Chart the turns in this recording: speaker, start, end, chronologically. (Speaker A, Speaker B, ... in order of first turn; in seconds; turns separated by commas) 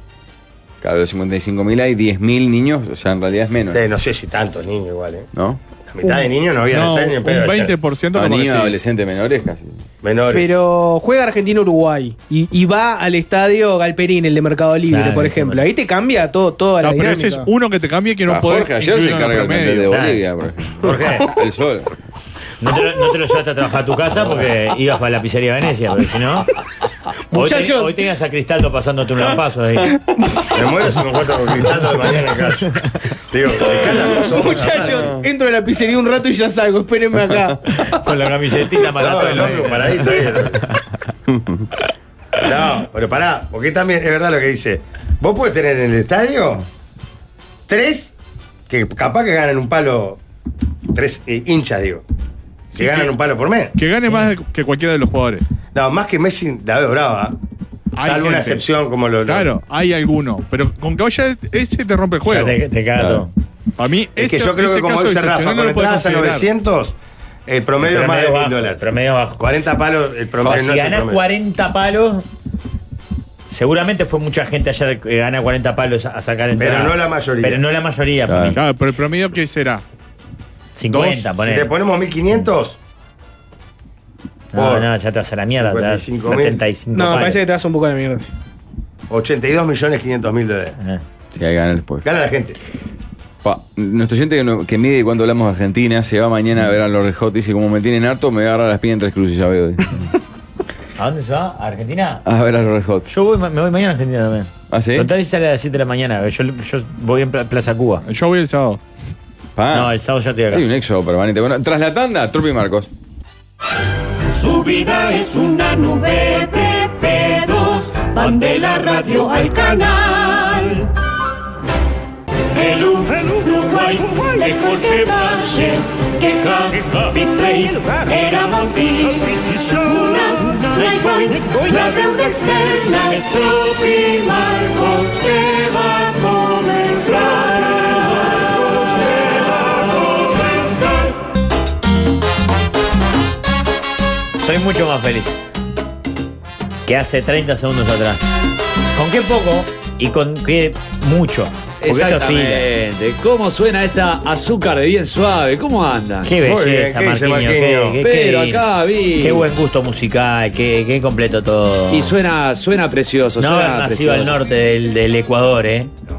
Speaker A: 0.8-3.8, Speaker B: 3.7-5.3, Speaker A: 5.3-5.6, Speaker B: 5.9-7.7, Speaker C: 6.7-8.8, Speaker A: 8.1-9.8, Speaker B: 10.0-10.7, Speaker D: 10.3-17.5, Speaker E: 14.9-15.7, Speaker C: 16.8-19.9, Speaker A: 18.2-21.9, Speaker E: 19.9-20.2, Speaker E: 20.8-21.3, Speaker E: 22.6-26.5, Speaker D: 27.3-28.0, Speaker E: 27.3-29.9, Speaker B: 30.5-32.7, Speaker B: 33.3-35.2, Speaker D: 34.2-37.6, Speaker E: 37.7-40.4, Speaker B: 39.0-40.6, Speaker A: 41.3-41.6, Speaker B: 42.4-46.6, Speaker B: 47.7-48.1, Speaker B: 48.7-50.2, Speaker B: 50.9-52.0, Speaker B: 52.7-53.8, Speaker C: 52.7-53.1, Speaker C: 53.8-55.4, Speaker B: 55.7-57.4, Speaker C: 58.0-58.6, Speaker B: 58.0-59.5, Speaker C: 59.2-62.6, Speaker E: 62.2-63.3, Speaker A: 63.0-63.2, Speaker C: 63.8-66.5, Speaker B: 64.2-67.0, Speaker B: 67.5-68.8, Speaker E: 67.8-69.4, Speaker B: 69.4-71.2, Speaker E: 70.4-72.2, Speaker E: 73.5-78.6, Speaker B: 76.6-77.6, Speaker A: 78.3-78.6, Speaker C: 78.5-79.8, Speaker E: 80.7-81.7, Speaker C: 80.9-81.3, Speaker B: 81.4-82.8, Speaker E: 84.5-87.4, Speaker B: 84.5-84.9, Speaker B: 85.6-86.6, Speaker D: 86.9-88.3, Speaker B: 89.1-90.8, Speaker A: 91.3-92.0, Speaker B: 92.0-92.6, Speaker A: 93.4-100.1, Speaker E: 101.0-102.2, Speaker A: 102.2-103.1, Speaker E: 103.1-108.0, Speaker A: 104.7-105.1, Speaker C: 108.0-108.8, Speaker A: 109.5-109.9, Speaker E: 109.7-110.6, Speaker A: 110.5-112.9, Speaker F: 114.3-120.9, Speaker F: 122.5-141.1, Speaker E: 144.4-145.4, Speaker E: 146.8-148.3, Speaker E: 148.9-152.7, Speaker G: 151.8-156.3, Speaker E: 156.2-162.1, Speaker B: 156.4-158.0, Speaker G: 158.0-159.5, Speaker G: 161.9-164.3, Speaker E: 163.4-165.9